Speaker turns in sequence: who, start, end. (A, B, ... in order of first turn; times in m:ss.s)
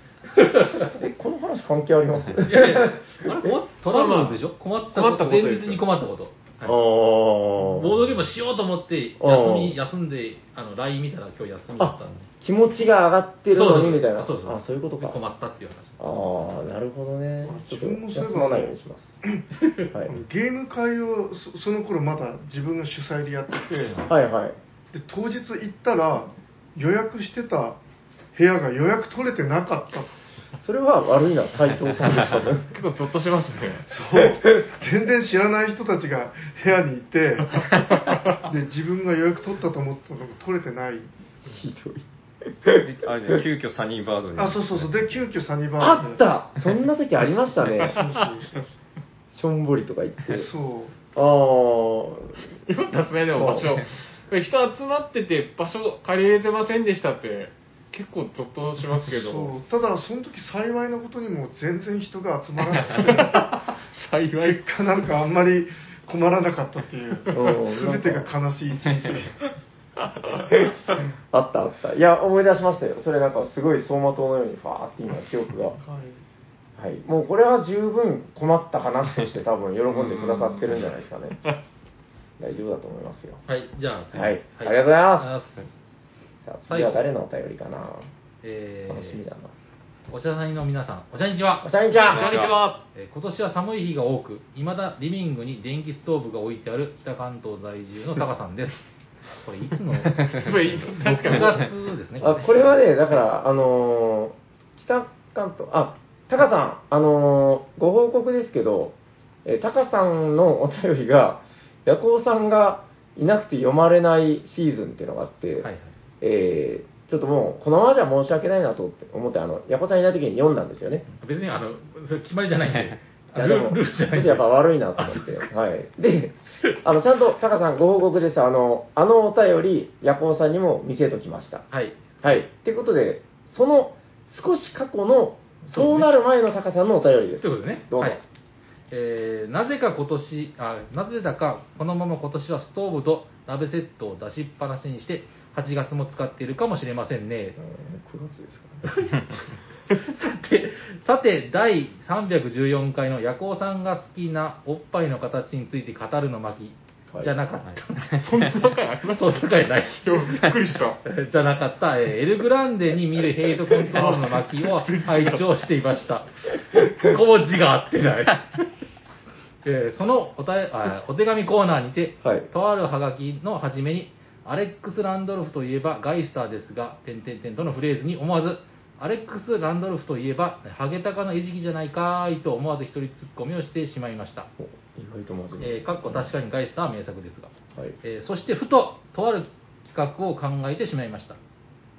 0:00.3-0:00.9 A
0:01.0-0:03.5 B
0:02.4-0:06.8 A
0:03.9-0:04.4 C
0:04.9-0:05.8 C
0:06.6-0:08.0 B
0:07.6-0:12.3 A
0:09.2-0:09.8 B
0:11.8-0:15.2 B
0:13.5-0:16.2 A
0:16.0-0:19.1 B
0:17.4-0:18.7 D
0:19.9-0:20.2 B
0:20.1-0:24.0 D
0:24.1-0:24.6 B
0:24.9-0:27.8 D
0:28.3-0:30.1 D
0:30.6-0:32.7 B
0:32.7-0:33.9 C
0:33.9-0:41.1 D
0:34.2-0:34.7 B
0:41.5-0:43.4 B
0:42.8-0:45.3 E
0:44.4-0:46.2 D
0:45.8-0:48.0 B
0:47.8-0:48.6 D
0:49.3-0:50.5 B
0:50.3-0:51.0 D
0:51.2-0:52.4 B
0:52.7-0:59.5 C
0:53.4-0:53.8 B
0:59.2-1:03.6 D
1:02.8-1:04.6 C
1:04.4-1:09.5 D
1:07.3-1:08.3 B
1:10.5-1:10.8 B
1:11.3-1:15.8 B
1:15.8-1:16.2 D
1:16.8-1:21.4 B
1:19.9-1:20.7 C
1:22.4-1:23.4 B
1:23.5-1:25.7 A
1:24.1-1:25.4 B
1:26.4-1:28.1 B
1:26.7-1:27.0 A
1:28.4-1:29.2 A
1:28.9-1:29.5 B
1:30.1-1:31.7 A
1:31.6-1:32.4 B
1:32.0-1:32.8 C
1:32.1-1:32.6 E
1:32.9-1:42.7 A
1:40.3-1:41.6 C
1:42.2-1:55.7 B
1:55.6-1:55.9 A
1:56.2-2:01.0 B
2:01.2-2:05.5 A
2:03.3-2:11.7 B
2:11.7-2:12.0 A
2:12.2-2:18.2 B
2:15.6-2:16.1 A
2:17.4-2:18.2 A
2:18.9-2:27.6 A
2:27.6-2:28.8 B
2:30.0-2:38.2 A
2:37.6-2:38.3 E
2:38.2-2:41.0 C
2:39.1-2:40.5 A
2:41.0-2:48.6 A
2:43.8-2:45.5 C
2:49.6-3:04.5 A
2:52.2-2:52.5 B
3:04.6-3:06.3 B
3:05.6-3:07.5 A
3:08.0-3:11.4 A